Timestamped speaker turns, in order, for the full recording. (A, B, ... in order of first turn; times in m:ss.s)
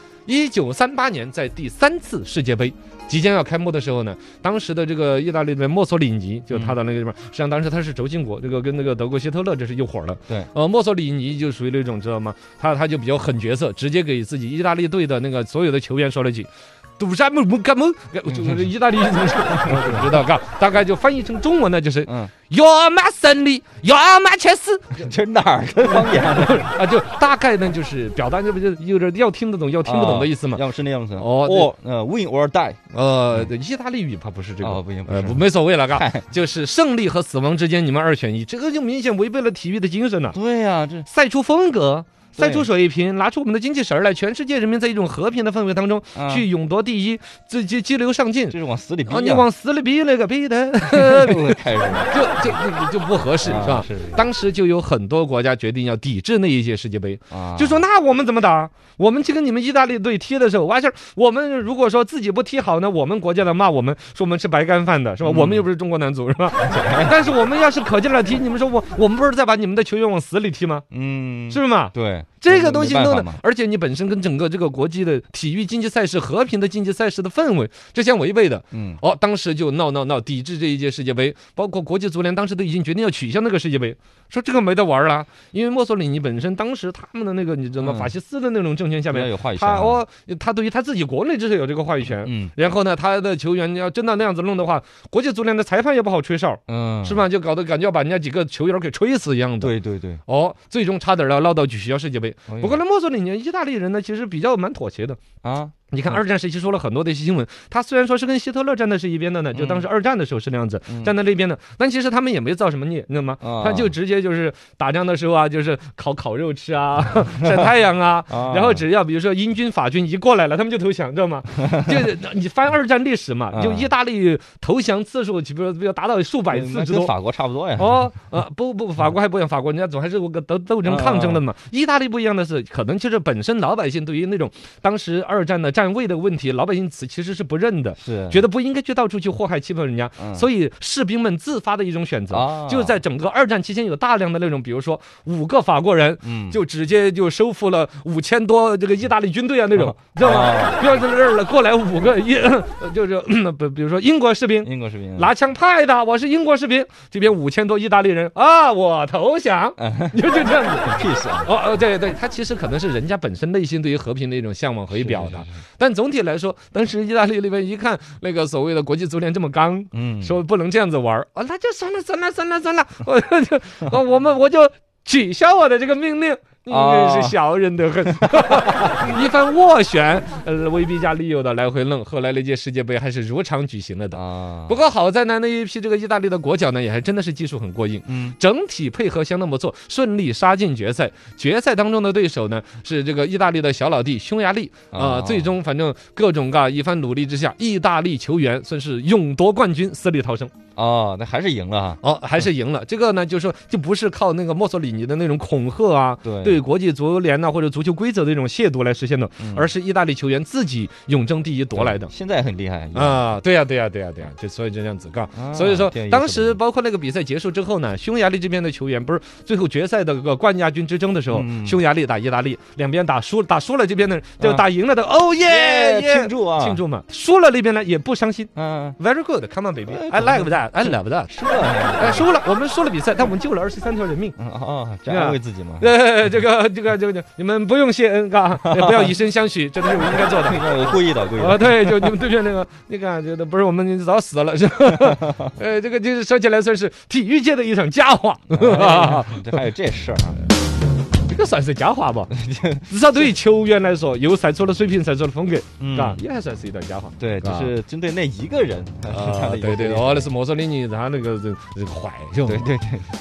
0:00.2-0:25.1 A
0:06.5-0:06.8 B
0:18.3-0:18.7 B
0:19.6-0:20.1 B
0:22.0-0:22.3 B
0:24.9-0:26.7 B
0:25.8-0:30.6 A
0:29.8-0:32.8 B
0:31.2-0:31.7 A
0:32.9-0:40.4 A
0:34.6-0:36.3 B
0:40.3-0:41.1 B
0:41.0-1:10.8 A
0:42.4-0:42.7 B
0:46.1-0:46.5 B
0:48.5-0:49.5 B
0:50.9-0:52.2 B
0:53.4-0:54.2 B
0:57.3-0:57.8 B
1:05.2-1:05.7 B
1:06.6-1:07.1 B
1:10.9-1:13.4 B
1:11.5-1:39.7 A
1:18.7-1:19.0 B
1:27.8-1:28.1 B
1:29.1-1:30.0 B
1:32.2-1:32.5 B
1:36.7-1:37.2 B
1:39.6-1:40.2 B
1:40.2-1:45.2 A
1:42.5-1:42.8 B
1:45.4-1:46.1 B
1:45.9-2:07.1 A
1:49.5-1:49.9 B
1:50.9-1:51.1 B
1:53.4-1:53.9 B
1:58.3-1:58.8 B
2:01.7-2:02.0 B
2:03.5-2:03.9 B
2:06.5-2:08.1 B
2:07.8-3:20.5 A
2:10.8-2:11.4 B
2:18.0-2:18.4 B
2:20.2-2:20.5 B
2:22.3-2:23.0 B
2:26.2-2:26.6 B
2:29.8-2:30.8 B
2:34.6-2:35.3 B
2:39.8-2:40.3 B
2:40.8-2:41.5 B
2:44.9-2:45.5 B
2:49.9-2:50.4 B
2:56.7-2:57.4 B
3:04.1-3:04.8 B
3:08.1-3:08.4 B
3:14.9-3:15.5 B
3:20.8-3:22.0 B
3:22.0-3:32.1 A
3:26.2-3:26.6 B
3:29.4-3:29.7 B
3:31.7-3:33.3 B
3:32.9-3:51.3 A
3:35.3-3:36.6 B
3:41.3-3:41.8 B
3:44.4-3:44.6 B
3:45.4-3:46.8 B
3:48.6-3:49.0 B
3:49.9-3:52.3 B
3:51.9-3:54.4 A
3:54.4-3:55.9 B
3:55.1-4:09.6 A
3:58.6-3:59.1 B
4:00.2-4:02.1 B
4:08.5-4:10.4 B
4:11.3-4:12.3 A
4:12.3-4:12.9 B
4:12.9-4:17.7 A
4:15.8-4:16.2 B
4:17.2-4:20.3 B
4:19.1-4:22.6 A
4:22.4-4:23.1 B